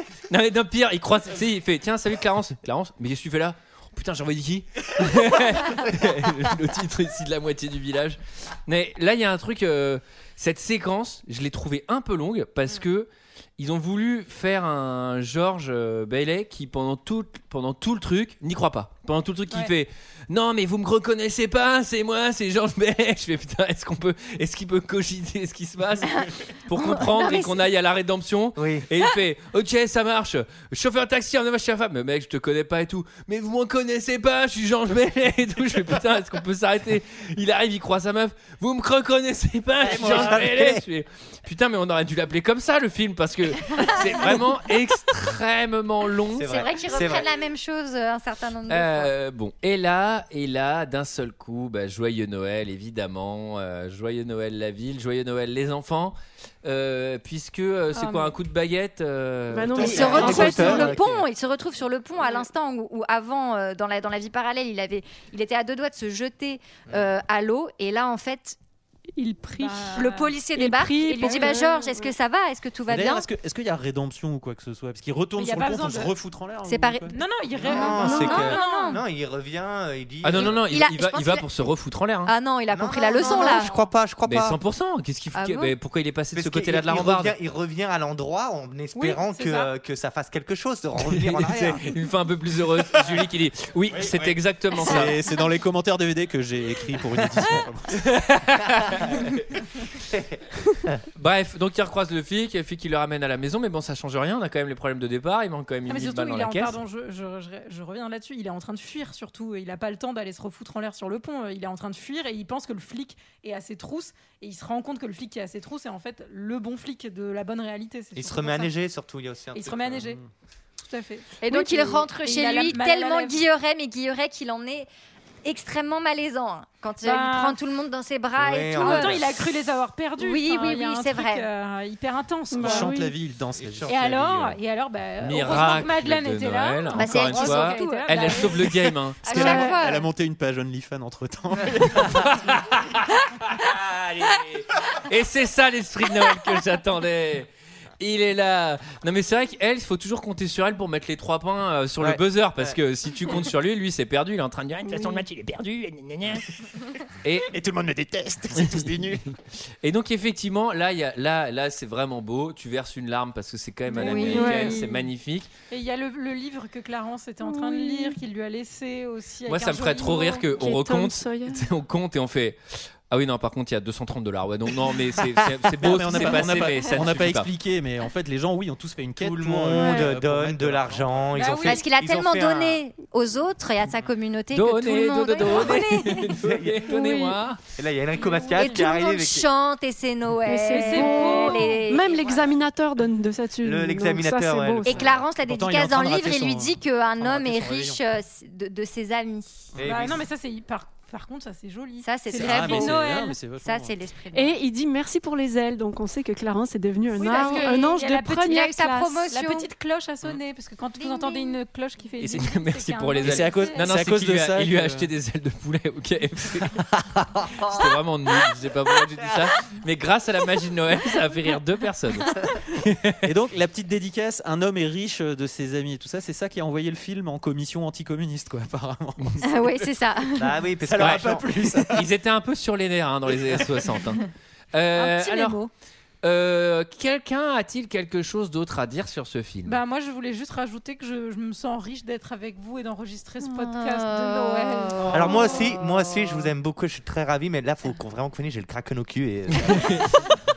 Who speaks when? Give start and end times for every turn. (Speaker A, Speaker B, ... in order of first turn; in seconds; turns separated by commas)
Speaker A: 0.3-46.5, Speaker B: 26.1-27.7, Speaker C: 28.6-28.9, Speaker C: 39.8-40.8, Speaker B: 43.7-44.4, Speaker C: 46.3-47.3, Speaker B: 46.5-49.1, Speaker A: 48.7-60.6, Speaker D: 57.9-58.4, Speaker E: 59.5-61.0, Speaker C: 59.8-61.0, Speaker F: 59.8-60.9, Speaker B: 59.8-68.6, Speaker E: 69.2-72.1, Speaker D: 69.6-70.3, Speaker B: 70.0-73.3, Speaker D: 71.3-71.5, Speaker F: 72.9-77.2, Speaker D: 75.4-76.1, Speaker B: 76.7-79.0, Speaker D: 77.1-79.0, Speaker C: 77.6-80.6, Speaker E: 77.9-78.5, Speaker A: 80.2-82.3, Speaker B: 80.3-81.5, Speaker B: 82.3-83.7, Speaker C: 82.7-84.6, Speaker D: 83.2-83.8, Speaker A: 84.2-87.3, Speaker B: 85.3-85.8, Speaker C: 86.3-91.8, Speaker D: 89.0-89.7, Speaker A: 91.0-95.2, Speaker F: 93.9-98.0, Speaker A: 98.0-99.5, Speaker A: 101.2-106.8, Speaker D: 105.9-118.7, Speaker C: 118.2-119.9, Speaker D: 119.5-120.2, Speaker D: 120.8-123.4, Speaker B: 121.4-124.9, Speaker B: 125.5-129.2, Speaker D: 127.0-127.6, Speaker C: 128.4-129.3, Speaker D: 128.8-132.9, Speaker B: 130.2-131.5, Speaker E: 132.5-133.2, Speaker F: 132.6-134.6, Speaker D: 133.9-138.6, Speaker A: 135.2-139.3, Speaker B: 136.9-138.5, Speaker B: 139.2-140.1, Speaker F: 139.3-142.6, Speaker E: 139.4-139.9, Speaker A: 141.9-147.5, Speaker A: 148.0-156.4, Speaker C: 152.0-152.7, Speaker E: 154.9-155.2, Speaker A: 157.2-157.5, Speaker F: 157.5-159.2, Speaker A: 158.6-158.9, Speaker A: 159.8-165.5, Speaker B: 163.9-164.8, Speaker E: 164.0-165.1, Speaker D: 165.7-170.5, Speaker E: 167.4-168.2, Speaker A: 169.5-177.5, Speaker E: 170.5-171.7, Speaker F: 175.8-181.5, Speaker C: 179.2-182.8, Speaker E: 179.7-180.2, Speaker D: 181.4-181.8, Speaker B: 181.6-186.4, Speaker A: 184.5-187.6, Speaker C: 186.4-186.8, Speaker E: 186.9-187.4, Speaker C: 187.8-189.5, Speaker D: 188.2-188.8, Speaker B: 188.6-192.5, Speaker E: 190.4-195.1, Speaker D: 190.7-191.8, Speaker C: 193.6-195.2, Speaker B: 194.8-199.7, Speaker F: 195.2-198.0, Speaker C: 199.8-200.2, Speaker D: 199.8-203.4, Speaker B: 202.0-204.6, Speaker F: 202.3-203.9, Speaker E: 204.3-209.2, Speaker D: 207.1-208.7, Speaker B: 207.2-207.8, Speaker B: 208.4-209.7, Speaker D: 209.2-213.9, Speaker B: 211.0-211.6, Speaker A: 212.2-216.9, Speaker F: 213.2-215.1, Speaker C: 217.4-217.9, Speaker A: 217.6-223.3, Speaker F: 223.2-229.8, Speaker B: 229.4-230.6, Speaker C: 230.4-231.6, Speaker F: 230.8-232.1, Speaker A: 231.9-235.6, Speaker D: 235.0-235.7, Speaker A: 236.2-239.8, Speaker D: 239.7-245.4, Speaker B: 243.4-246.4, Speaker C: 245.1-249.9, Speaker A: 249.7-250.1